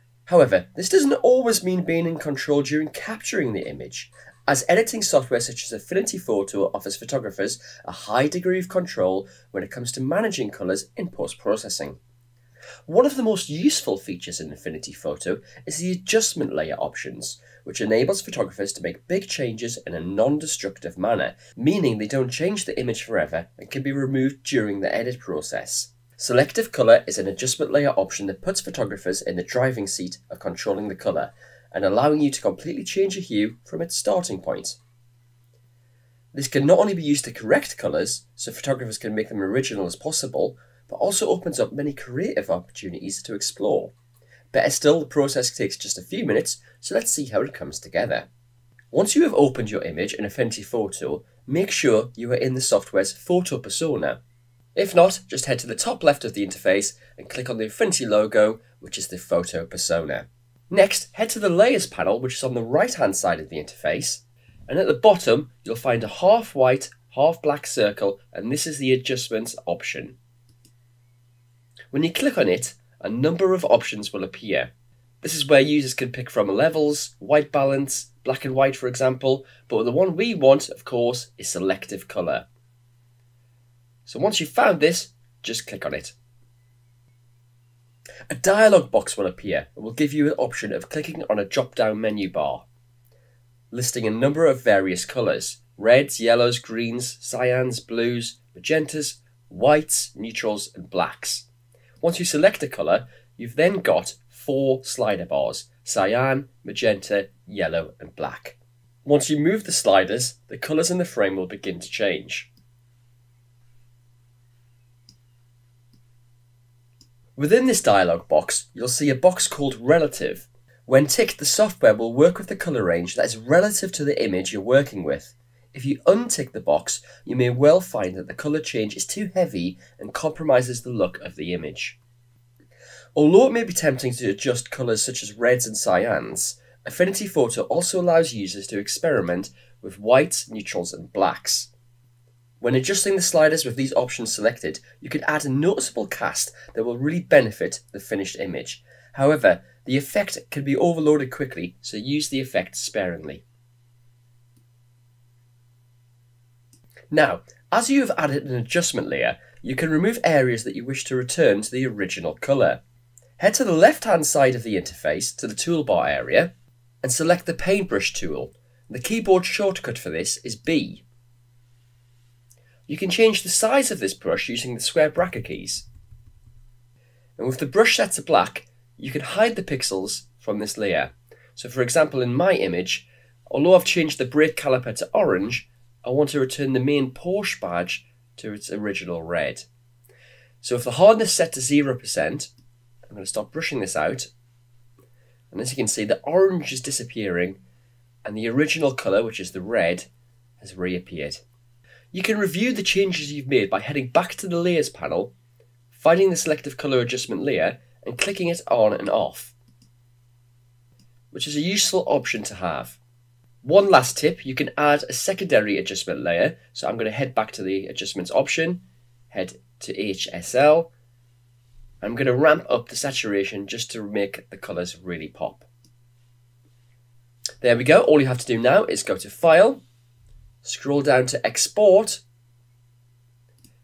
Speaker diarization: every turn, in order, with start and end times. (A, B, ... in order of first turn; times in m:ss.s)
0:00.2-0:12.0 A
0:12.8-0:34.8 A
0:36.3-0:43.9 A
0:44.5-0:48.3 A
0:48.9-0:54.2 A
0:54.7-1:10.2 A
1:11.9-1:22.5 A
1:24.0-1:26.1 A
1:28.3-1:32.7 A
1:33.7-1:41.5 A
1:42.0-1:52.5 A
1:57.4-2:12.0 A
2:13.1-2:21.7 A
2:22.6-2:33.4 A
2:37.1-2:42.8 A
2:43.4-2:46.5 A
2:47.0-2:51.0 A
2:52.9-2:55.8 A
2:57.4-3:09.7 A
3:10.6-3:12.5 A
3:13.1-3:14.3 A
3:15.5-3:17.6 A
3:18.2-3:20.1 A
3:20.6-3:21.4 A
3:22.1-3:25.3 A
3:25.9-3:29.5 A
3:31.3-3:33.0 A
3:33.6-3:40.9 A
3:42.0-3:45.7 A
3:47.6-3:49.8 A
3:50.6-3:52.2 A